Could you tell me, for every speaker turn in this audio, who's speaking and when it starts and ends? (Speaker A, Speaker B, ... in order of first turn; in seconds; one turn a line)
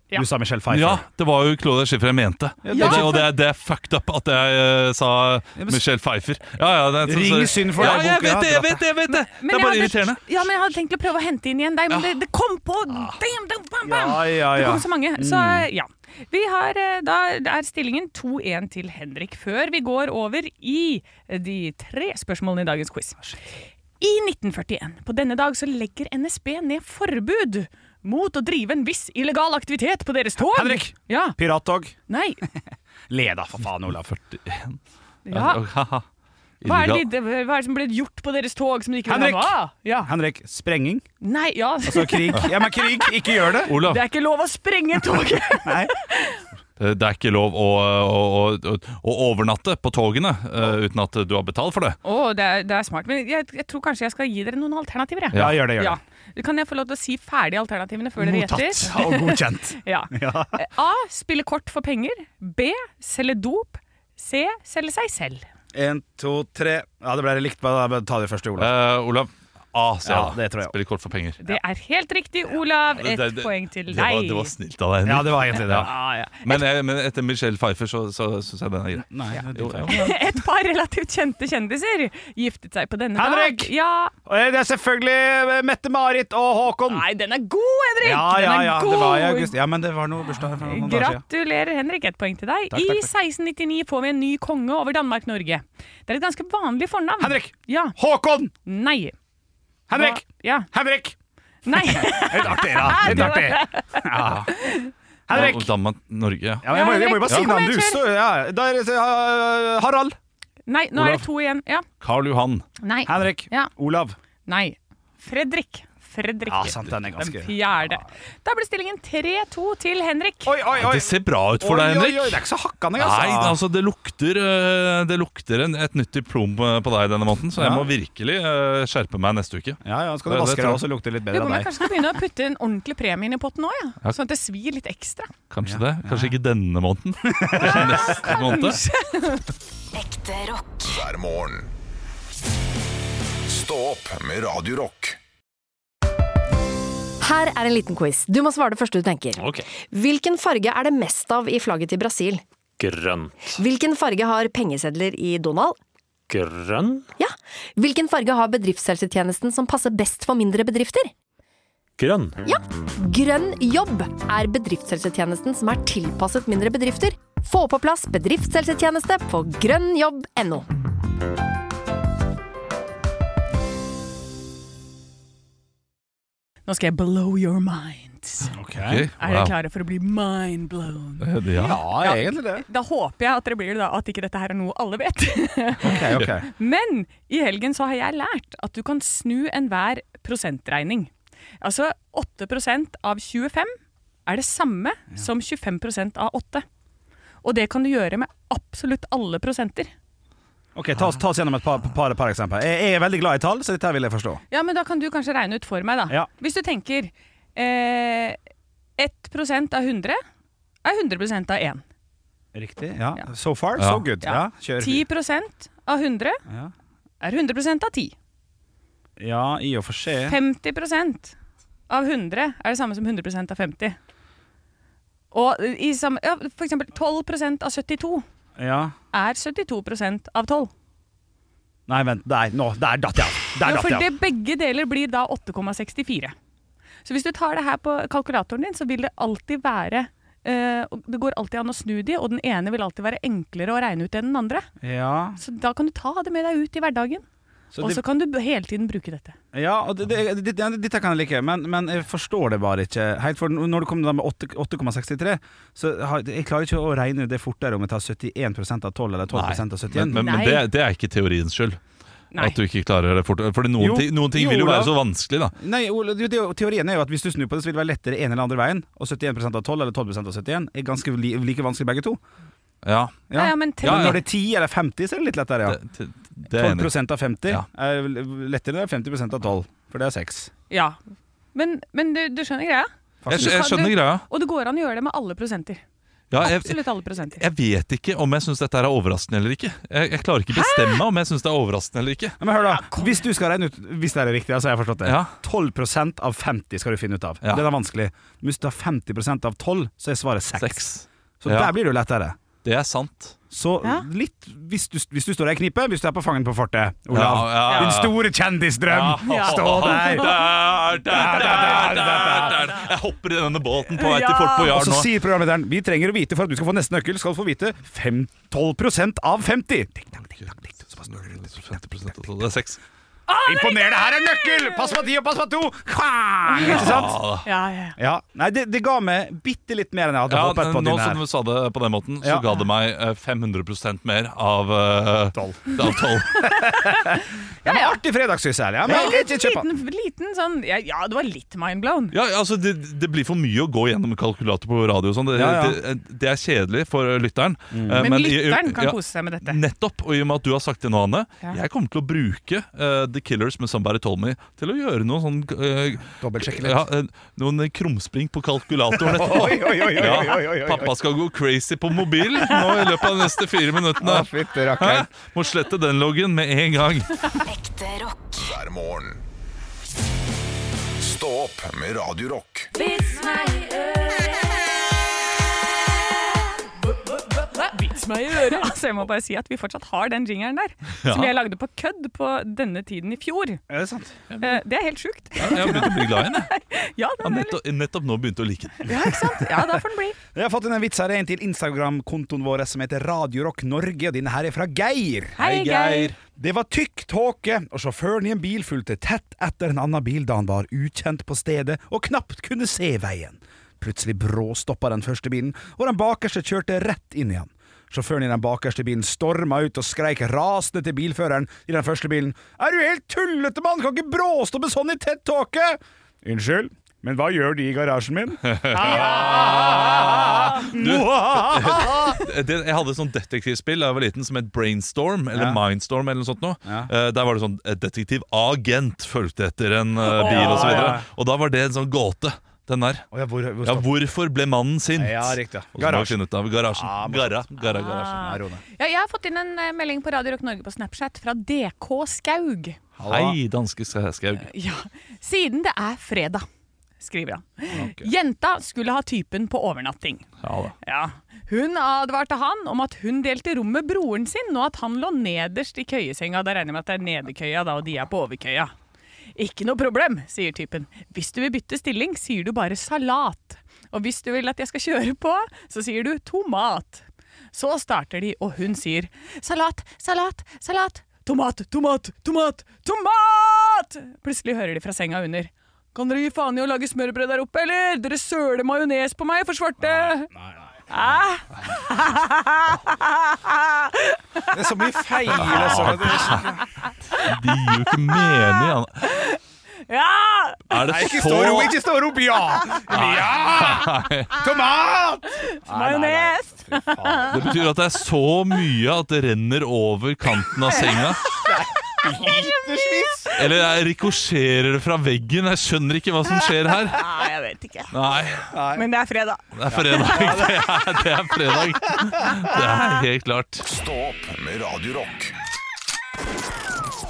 Speaker A: 0.1-1.1
Speaker B: 0.7-10.2
Speaker A: 2.6-3.3
Speaker C: 2.7-3.3
Speaker A: 7.0-8.8
Speaker C: 9.1-31.4
Speaker A: 13.8-15.7
Speaker A: 30.4-31.9
Speaker C: 32.1-32.4
Speaker A: 33.1-34.1
Speaker B: 33.9-34.8
Speaker C: 35.3-35.6
Speaker B: 35.3-36.0
Speaker B: 36.6-37.1
Speaker C: 36.6-40.1
Speaker A: 39.1-41.1
Speaker C: 41.2-46.4
Speaker A: 41.8-43.8
Speaker B: 43.7-44.0
Speaker A: 45.6-45.9
Speaker B: 46.8-52.0
Speaker C: 52.0-65.5
Speaker B: 55.3-55.6
Speaker A: 55.3-56.0
Speaker A: 58.2-60.6
Speaker A: 65.7-68.7
Speaker B: 68.6-71.4
Speaker A: 70.0-70.7
Speaker C: 71.4-74.5
Speaker B: 73.0-80.2
Speaker A: 75.0-75.9
Speaker C: 75.7-76.6
Speaker A: 79.0-80.2
Speaker C: 79.3-84.1
Speaker A: 83.2-83.7
Speaker A: 84.3-87.0
Speaker C: 86.9-89.5
Speaker A: 88.0-91.2
Speaker C: 90.6-98.0
Speaker A: 92.7-93.1
Speaker A: 97.2-98.5
Speaker C: 98.7-99.2
Speaker A: 99.9-101.2
Speaker C: 99.9-100.7
Speaker C: 101.7-104.9
Speaker A: 101.7-104.5
Speaker B: 103.0-103.3
Speaker B: 104.2-104.5
Speaker A: 105.3-105.7
Speaker B: 105.3-106.7
Speaker A: 106.6-110.2
Speaker C: 106.7-108.0
Speaker C: 110.7-111.8
Speaker B: 111.0-111.2
Speaker B: 112.0-112.7
Speaker C: 112.8-113.7
Speaker A: 113.1-114.2
Speaker C: 114.5-120.6
Speaker A: 116.5-117.6
Speaker A: 120.5-123.6
Speaker B: 120.8-122.4
Speaker B: 123.0-130.8
Speaker A: 127.5-127.9
Speaker A: 129.8-131.7
Speaker C: 131.3-135.3
Speaker B: 135.5-138.8
Speaker A: 135.6-136.3
Speaker A: 137.3-138.2
Speaker C: 137.7-139.5
Speaker D: 139.9-141.7
Speaker D: 143.4-145.2
Speaker E: 147.2-152.4
Speaker F: 149.4-149.7
Speaker F: 152.8-153.6
Speaker E: 153.5-155.8
Speaker F: 156.3-157.1
Speaker E: 157.2-161.1
Speaker F: 162.0-162.4
Speaker E: 162.5-170.7
Speaker C: 176.7-178.6
Speaker A: 178.6-179.1
Speaker B: 178.8-179.5
Speaker C: 179.2-193.7
Speaker B: 181.2-181.8
Speaker A: 181.6-182.7
Speaker A: 185.8-186.5
Speaker B: 185.9-186.3
Speaker C: 194.3-196.7
Speaker C: 197.4-199.9
Speaker A: 200.8-204.4
Speaker C: 204.5-208.4
Speaker C: 209.0-210.2
Speaker C: 210.8-211.8
Speaker A: 212.5-215.1
Speaker B: 213.8-214.1
Speaker C: 214.2-216.4
Speaker A: 216.5-216.7
Speaker C: 217.2-218.2
Speaker A: 219.2-220.4
Speaker C: 220.3-221.3
Speaker C: 221.9-224.0
Speaker C: 225.3-228.2
Speaker A: 228.6-228.9
Speaker C: 229.1-230.7
Speaker A: 231.9-234.1
Speaker C: 233.6-236.3
Speaker C: 237.1-244.7
Speaker A: 244.8-245.4
Speaker C: 245.4-247.2
Speaker A: 247.7-248.0
Speaker C: 247.8-249.4
Speaker A: 249.5-260.4
Speaker B: 259.3-261.8
Speaker C: 260.1-260.7
Speaker B: 262.4-265.5
Speaker A: 263.8-265.0
Speaker A: 265.6-272.2
Speaker B: 272.8-273.3
Speaker A: 273.3-275.8
Speaker C: 273.3-274.2
Speaker B: 273.8-274.2
Speaker B: 275.7-276.9
Speaker A: 276.5-280.5
Speaker C: 280.7-281.0
Speaker C: 281.5-285.8
Speaker A: 283.2-283.8
Speaker B: 283.3-284.3
Speaker B: 286.3-286.8
Speaker C: 286.4-287.4
Speaker B: 287.4-292.4
Speaker C: 290.5-291.0
Speaker A: 292.4-300.9
Speaker C: 292.7-293.2
Speaker B: 295.0-295.3
Speaker B: 300.6-301.7
Speaker A: 301.4-302.4
Speaker B: 302.6-303.4
Speaker A: 303.5-312.8
Speaker B: 307.1-308.1
Speaker C: 307.7-308.0
Speaker B: 308.9-315.1
Speaker C: 309.2-310.3
Speaker C: 313.9-314.7
Speaker A: 314.6-321.9
Speaker B: 321.1-322.8
Speaker C: 323.3-324.7
Speaker A: 323.4-327.2
Speaker C: 326.6-326.8
Speaker B: 326.6-327.5
Speaker C: 327.4-328.0
Speaker A: 328.0-331.2
Speaker B: 330.3-336.6
Speaker A: 332.2-332.5
Speaker A: 335.3-339.7
Speaker C: 336.5-338.0
Speaker C: 338.9-342.1
Speaker B: 342.1-367.2
Speaker A: 345.4-345.8
Speaker A: 347.7-348.1
Speaker C: 348.0-349.6
Speaker A: 356.2-356.9
Speaker A: 359.0-360.9
Speaker A: 364.0-365.1
Speaker D: 367.4-369.2
Speaker D: 371.0-372.9
Speaker C: 372.7-374.5
Speaker C: 376.9-383.6
Speaker B: 381.0-381.3
Speaker A: 383.7-384.2
Speaker B: 384.3-384.6
Speaker C: 384.4-387.6
Speaker B: 385.4-386.5
Speaker B: 387.2-389.1
Speaker C: 388.8-390.2
Speaker A: 390.3-395.4
Speaker C: 395.4-396.1
Speaker B: 395.4-396.2
Speaker A: 396.4-422.2
Speaker B: 418.4-433.1
Speaker C: 418.9-420.8
Speaker A: 425.3-425.6
Speaker A: 426.6-426.9
Speaker C: 430.0-431.0
Speaker A: 430.2-431.1
Speaker A: 433.1-433.9
Speaker B: 433.6-438.4
Speaker A: 435.0-436.2
Speaker A: 436.7-437.5
Speaker C: 437.6-442.8
Speaker A: 438.1-438.6
Speaker A: 443.0-443.4
Speaker B: 443.1-444.5
Speaker C: 444.4-446.5
Speaker C: 447.0-450.3
Speaker A: 447.7-448.1
Speaker B: 450.4-450.8
Speaker C: 450.8-458.7
Speaker C: 459.4-480.3
Speaker A: 479.8-481.2
Speaker C: 480.9-490.8
Speaker A: 484.5-486.6
Speaker B: 485.3-486.5
Speaker B: 487.1-489.2
Speaker B: 490.7-491.8
Speaker A: 490.8-497.5
Speaker B: 492.9-494.4
Speaker C: 495.3-497.6
Speaker B: 497.3-501.3
Speaker C: 500.6-503.4
Speaker A: 501.4-503.5
Speaker B: 503.4-507.1
Speaker C: 506.3-507.9
Speaker B: 507.9-508.6
Speaker A: 508.5-508.9
Speaker C: 508.7-510.5
Speaker B: 509.6-513.6
Speaker A: 509.7-510.6
Speaker C: 511.9-512.7
Speaker D: 513.6-515.4